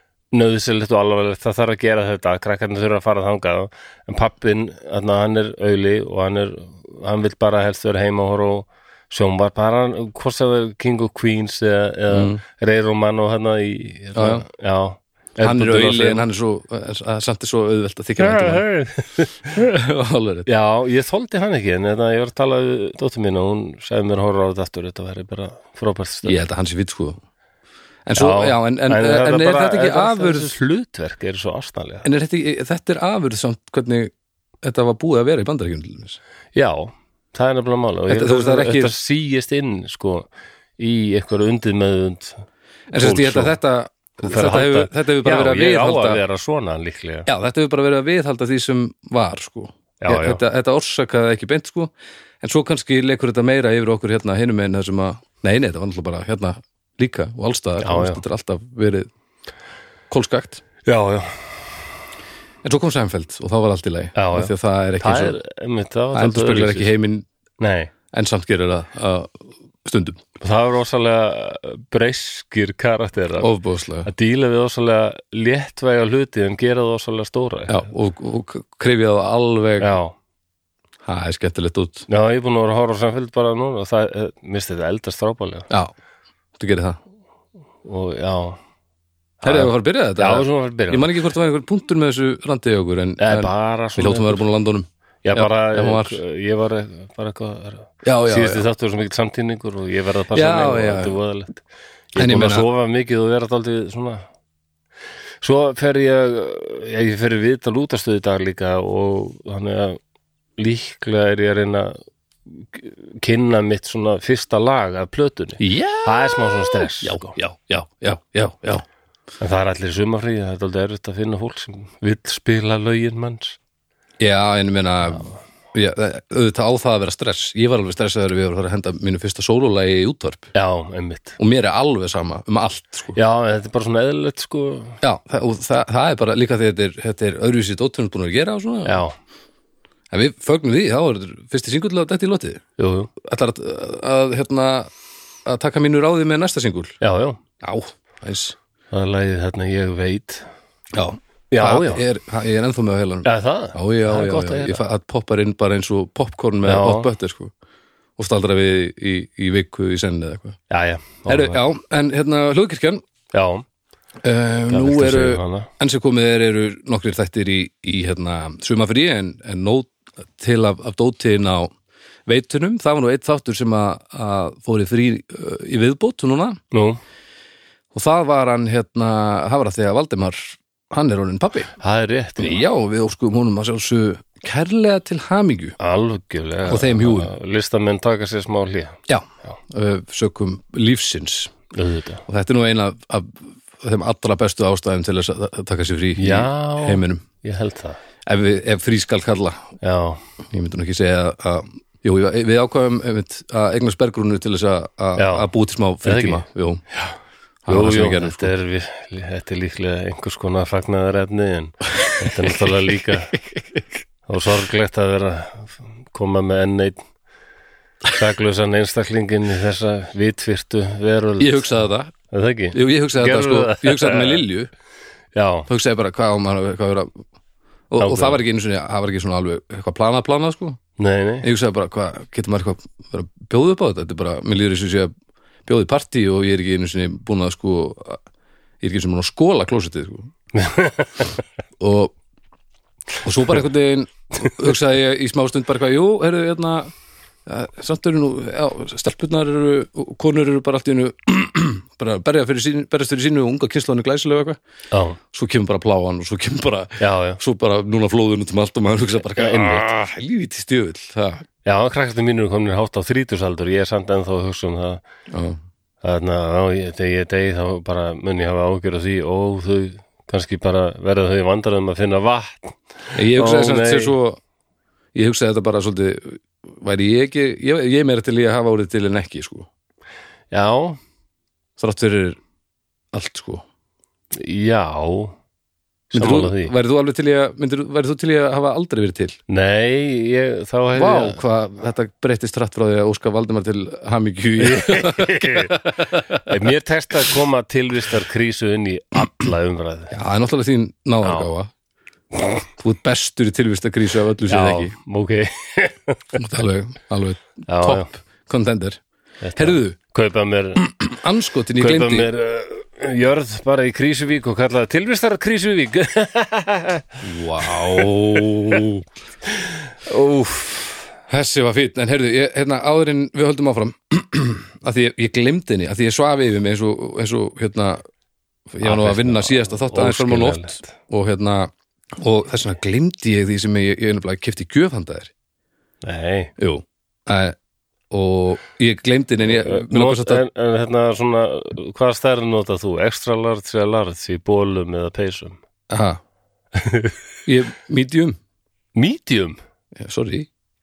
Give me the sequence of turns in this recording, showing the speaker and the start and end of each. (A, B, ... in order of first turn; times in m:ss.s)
0:00.3-0:16.2 A
0:12.1-0:12.4 B
0:14.2-0:14.4 B
0:15.4-0:18.6 B
0:18.2-0:19.4 A
0:19.5-0:20.5 B
0:20.5-0:26.4 A
0:26.2-0:27.2 B
0:28.1-0:30.5 B
0:28.2-0:32.1 A
0:32.0-0:36.2 B
0:36.6-0:43.6 A
0:38.1-0:38.9 B
0:42.9-0:46.2 B
0:44.2-0:47.3 A
0:47.3-0:59.1 B
0:50.0-0:50.4 A
0:57.8-0:58.2 A
1:00.1-1:00.6 B
1:00.9-1:01.7 A
1:02.6-1:05.4 B
1:04.2-1:06.9 A
1:06.1-1:07.3 B
1:07.6-1:07.9 A
1:08.1-1:10.2 B
1:10.4-1:13.5 A
1:13.4-1:14.1 B
1:14.0-1:17.9 A
1:17.7-1:19.9 B
1:19.8-1:20.1 A
1:21.0-1:22.1 B
1:22.1-1:25.7 A
1:26.6-1:27.0 B
1:27.8-1:28.6 A
1:29.4-1:31.1 A
1:29.4-1:36.2 B
1:33.2-1:34.4 A
1:35.2-1:44.2 A
1:38.0-1:38.6 B
1:40.3-1:41.2 B
1:42.2-1:42.7 B
1:45.4-1:50.0 A
1:50.6-1:57.4 A
1:55.6-1:58.8 B
1:59.4-2:03.6 A
2:04.2-2:10.5 B
2:10.5-2:11.4 A
2:11.4-2:13.2 B
2:13.1-2:15.0 A
2:15.0-2:19.0 B
2:18.8-2:19.2 A
2:20.1-2:22.6 B
2:22.8-2:23.1 A
2:23.2-2:24.9 B
2:25.5-2:27.0 B
2:27.0-2:27.4 A
2:27.6-2:28.6 B
2:28.9-2:30.5 A
2:30.9-2:37.5 B
2:31.5-2:32.0 A
2:33.2-2:34.8 A
2:36.6-2:37.1 A
2:38.2-2:40.6 B
2:40.7-2:41.6 A
2:41.3-2:43.0 B
2:43.3-2:43.6 A
2:44.2-2:51.7 B
2:44.7-2:45.7 A
2:52.3-2:56.6 B
2:56.7-2:57.0 A
2:57.9-3:01.7 B
3:01.8-3:02.6 A
3:02.4-3:05.8 B
3:05.8-3:09.6 A
3:06.7-3:07.3 B
3:09.1-3:11.5 B
3:11.7-3:12.2 A
3:12.3-3:17.2 B
3:16.2-3:18.0 A
3:18.2-3:19.6 B
3:19.8-3:20.2 A
3:20.5-3:26.8 B
3:25.2-3:25.5 A
3:26.0-3:26.4 A
3:27.7-3:28.5 B
3:27.7-3:33.4 A
3:34.3-3:37.1 A
3:38.1-3:41.7 A
3:41.4-3:42.1 B
3:42.3-3:44.4 A
3:42.7-3:44.7 B
3:45.4-3:45.7 A
3:45.7-3:47.1 B
3:47.9-3:50.8 B
3:48.0-3:48.4 A
3:51.0-3:51.5 A
3:51.4-3:55.1 B
3:55.7-3:58.2 B
3:58.8-4:00.3 B
4:00.5-4:01.3 A
4:01.8-4:02.1 B
4:03.2-4:06.9 B
4:07.5-4:14.6 B
4:14.9-4:15.2 A
4:15.3-4:21.4 B
4:17.0-4:17.4 A
4:19.4-4:19.9 A
4:21.6-4:25.0 A
4:25.3-4:25.6 B
4:26.0-4:34.2 A
4:33.2-4:34.4 B
4:35.2-4:39.7 B
4:40.5-4:41.0 A
4:41.8-4:42.4 B
4:43.1-4:43.6 B
4:44.3-4:45.4 A
4:46.1-4:46.7 A
4:46.1-4:49.4 B
4:49.5-4:51.4 A
4:51.0-4:56.6 B
4:54.6-4:55.8 A
4:56.4-5:00.2 A
5:00.1-5:01.7 B
5:01.2-5:01.5 A
5:02.8-5:05.0 B
5:04.5-5:06.4 A
5:06.4-5:09.0 B
5:07.7-5:08.1 A
5:09.4-5:10.9 A
5:09.6-5:10.0 B
5:10.8-5:12.3 B
5:11.8-5:18.9 A
5:17.2-5:19.0 B
5:19.5-5:21.1 A
5:21.3-5:28.0 B
5:28.7-5:35.3 B
5:28.8-5:30.9 A
5:36.0-5:36.5 A
5:36.6-5:37.6 B
5:38.1-5:40.4 B
5:39.5-5:45.6 A
5:45.9-5:46.2 B
5:46.7-5:47.2 A
5:47.5-5:48.4 B
5:49.0-5:49.6 A
5:50.0-5:50.5 B